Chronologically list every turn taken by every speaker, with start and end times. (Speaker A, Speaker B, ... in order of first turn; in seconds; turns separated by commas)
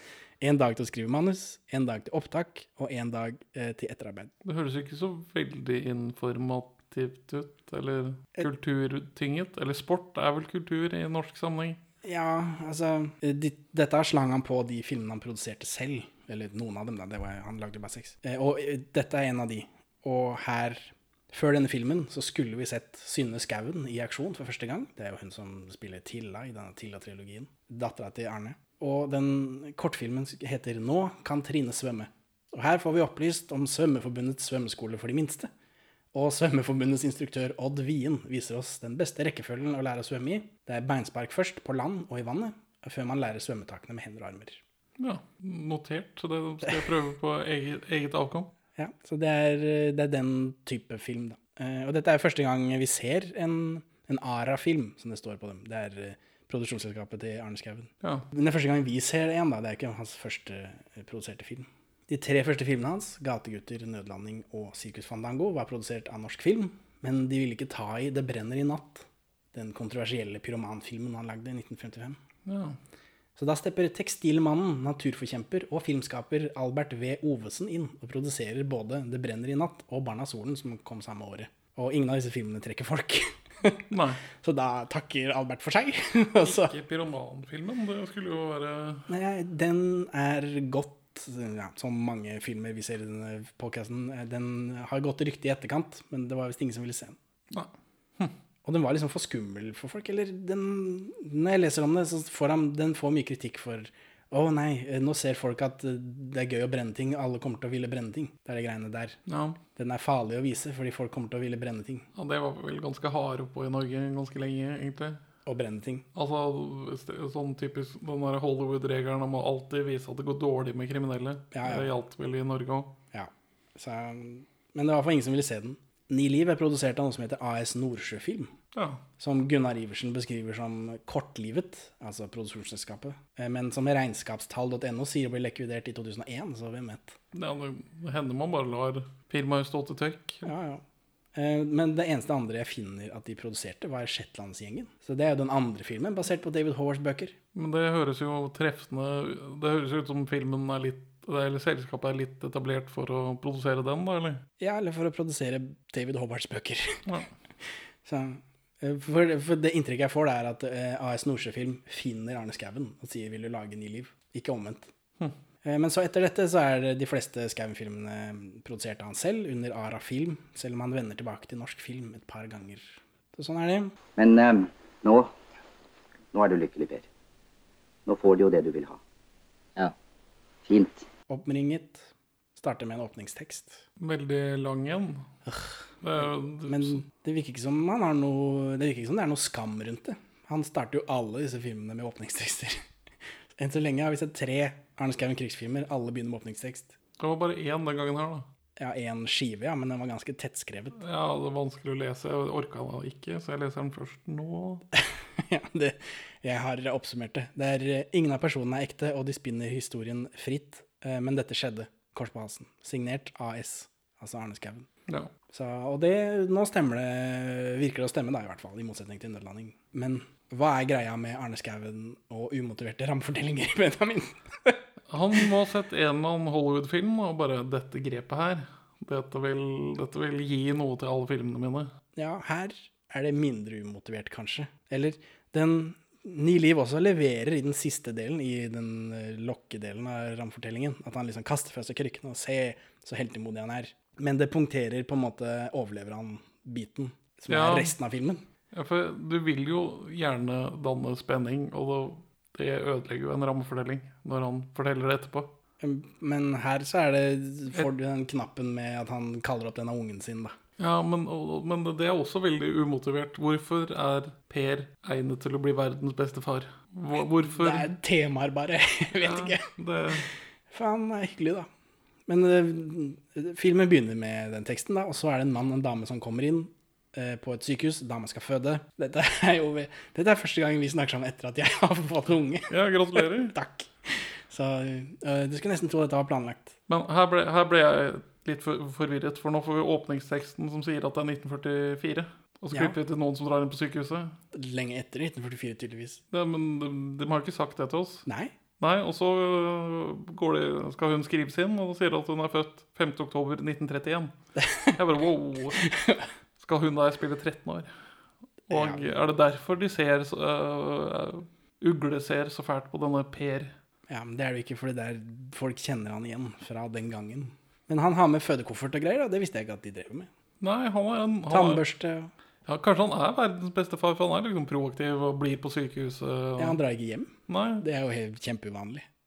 Speaker A: 0.4-4.3, Speaker B: 4.4-11.8, Speaker A: 12.0-35.5, Speaker A: 36.1-44.6, Speaker B: 45.0-48.5, Speaker A: 48.8-72.2, Speaker B: 72.5-72.8, Speaker A: 73.3-86.7, Speaker B: 83.9-84.2, Speaker B: 86.4-89.1, Speaker A: 89.1-97.2, Speaker B: 97.5-98.3, Speaker A: 98.6-109.2, Speaker B: 109.3-109.6, Speaker A: 109.8-112.1, Speaker B: 112.2-115.2, Speaker A: 115.5-116.0, Speaker B: 116.1-122.9, Speaker A: 121.5-121.9, Speaker A: 123.1-128.5, Speaker B: 128.7-129.0, Speaker A: 129.2-137.2, Speaker B: 137.3-140.4, Speaker A: 140.4-140.8, Speaker A: 141.3-147.3, Speaker B: 147.5-154.4, Speaker A: 154.6-157.0, Speaker A: 158.0-164.9, Speaker A: 165.6-173.9, Speaker C: 174.2-175.3, Speaker C: 176.3-177.1, Speaker C: 178.1-179.0, Speaker C: 180.6-181.1, Speaker A: 181.3-183.8, Speaker B: 184.0-185.3, Speaker A: 185.5-185.8, Speaker B: 186.0-187.0, Speaker A: 186.7-192.8, Speaker A: 193.6-196.9, Speaker B: 197.2-198.4, Speaker A: 198.8-201.0, Speaker B: 201.0-204.8, Speaker A: 205.4-214.9, Speaker A: 215.5-224.8, Speaker B: 225.1-231.9, Speaker A: 232.2-248.4, Speaker B: 247.5-247.9, Speaker B: 248.7-255.5, Speaker A: 255.8-260.5, Speaker B: 260.8-267.9, Speaker A: 267.4-269.6, Speaker B: 269.2-270.3, Speaker A: 270.7-271.7, Speaker A: 272.3-286.8, Speaker B: 282.7-283.5, Speaker B: 286.9-294.4, Speaker A: 294.5-296.2, Speaker B: 296.3-298.2, Speaker A: 298.2-298.5, Speaker B: 298.8-305.9, Speaker A: 304.6-304.9, Speaker A: 305.8-306.2, Speaker B: 306.6-307.9, Speaker A: 308.7-309.0, Speaker B: 308.7-313.7, Speaker A: 314.1-320.3, Speaker B: 320.6-321.8, Speaker A: 321.5-322.3, Speaker B: 322.6-326.8, Speaker A: 326.6-329.1, Speaker B: 327.5-327.8